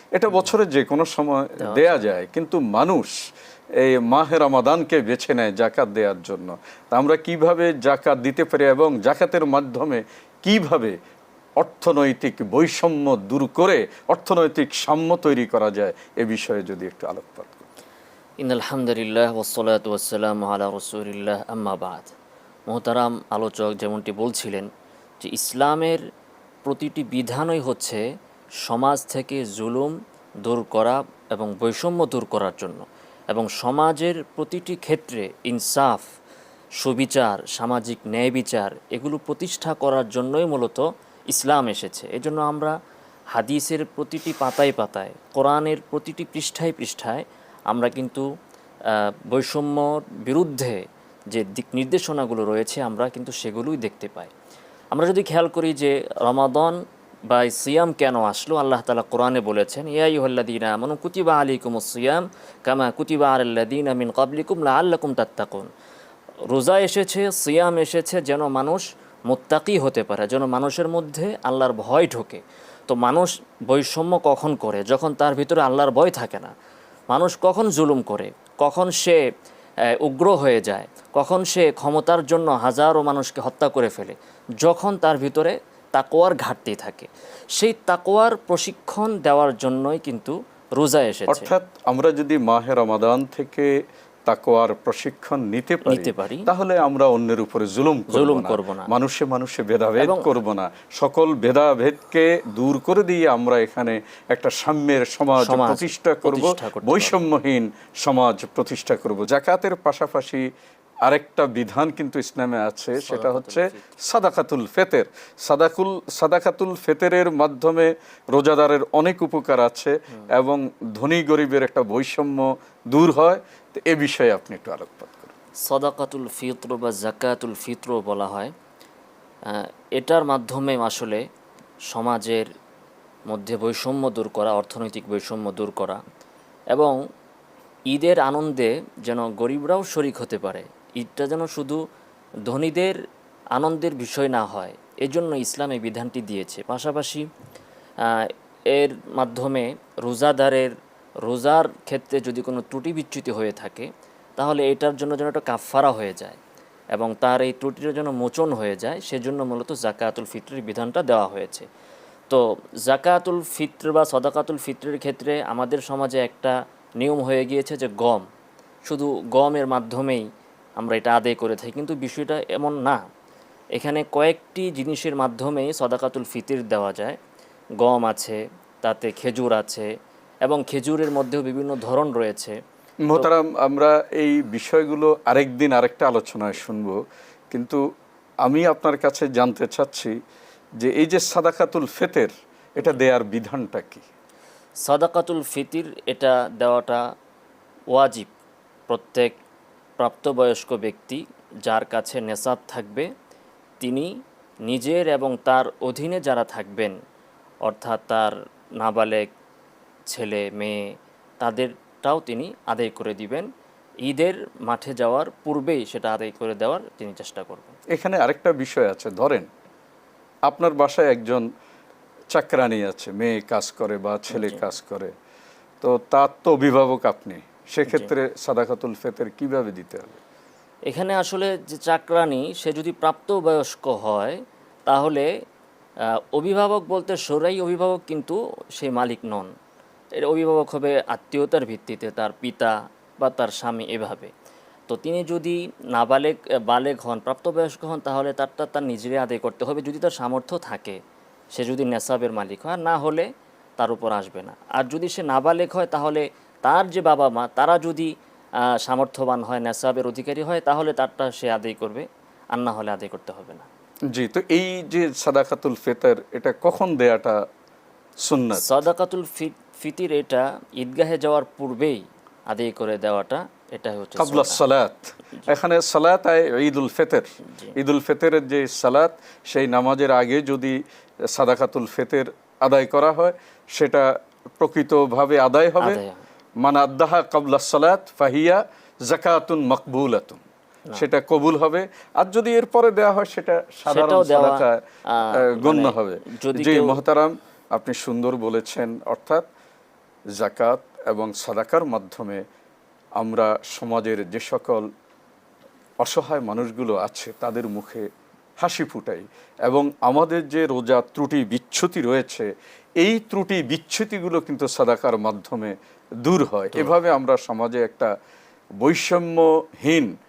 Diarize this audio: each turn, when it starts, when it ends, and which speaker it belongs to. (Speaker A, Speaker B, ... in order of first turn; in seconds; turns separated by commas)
Speaker A: 0.1-3.2, Speaker B: 1.6-1.9, Speaker A: 3.8-10.9, Speaker A: 11.6-17.7, Speaker B: 18.4-22.1, Speaker B: 22.7-24.7, Speaker B: 25.2-26.0, Speaker B: 26.6-28.0, Speaker B: 28.6-36.0, Speaker B: 36.8-42.7, Speaker B: 43.3-48.2, Speaker B: 48.9-54.3, Speaker B: 54.9-65.7, Speaker B: 66.5-76.5, Speaker B: 77.1-79.2, Speaker B: 80.0-91.5, Speaker A: 91.3-93.7, Speaker A: 94.3-110.4, Speaker B: 95.9-96.5, Speaker B: 98.1-98.9, Speaker B: 100.0-100.3, Speaker B: 105.3-107.1, Speaker A: 111.0-125.3, Speaker B: 113.0-113.8, Speaker B: 125.7-128.5, Speaker B: 129.5-131.2, Speaker B: 131.9-132.5, Speaker B: 133.3-136.0, Speaker B: 136.7-137.0, Speaker B: 137.9-141.8, Speaker B: 142.4-142.9, Speaker B: 143.5-147.3, Speaker B: 148.0-150.7, Speaker B: 151.2-156.4, Speaker B: 156.9-161.7, Speaker B: 162.3-168.3, Speaker B: 168.9-170.2, Speaker B: 170.8-173.0, Speaker B: 173.8-177.2, Speaker B: 177.8-179.9, Speaker B: 180.4-182.6, Speaker A: 183.1-187.0, Speaker A: 187.5-187.8, Speaker A: 188.4-190.1, Speaker A: 190.8-194.0, Speaker B: 194.8-197.0, Speaker B: 197.9-198.3, Speaker B: 198.9-199.4, Speaker B: 200.0-203.1, Speaker B: 203.8-204.1, Speaker B: 204.7-206.9, Speaker B: 207.7-209.3, Speaker B: 210.1-213.5, Speaker B: 214.0-217.8, Speaker A: 217.9-219.5, Speaker A: 220.5-221.4, Speaker A: 222.3-225.1, Speaker B: 224.3-224.6, Speaker A: 225.8-230.2, Speaker B: 230.9-235.3, Speaker B: 236.3-239.5, Speaker B: 240.2-244.3, Speaker B: 244.9-251.0, Speaker B: 251.5-258.1, Speaker B: 258.7-263.7, Speaker A: 264.1-267.4, Speaker A: 268.2-268.7, Speaker B: 268.6-274.6, Speaker A: 274.2-280.8, Speaker B: 277.5-277.8, Speaker A: 281.3-284.1, Speaker A: 284.6-286.0, Speaker B: 285.8-286.2, Speaker A: 286.6-290.4, Speaker A: 290.9-294.8, Speaker B: 293.9-296.9, Speaker A: 295.4-299.4, Speaker A: 300.4-302.4, Speaker A: 303.2-304.9, Speaker A: 306.0-308.1, Speaker A: 308.6-312.5, Speaker A: 313.0-318.1, Speaker A: 318.8-320.1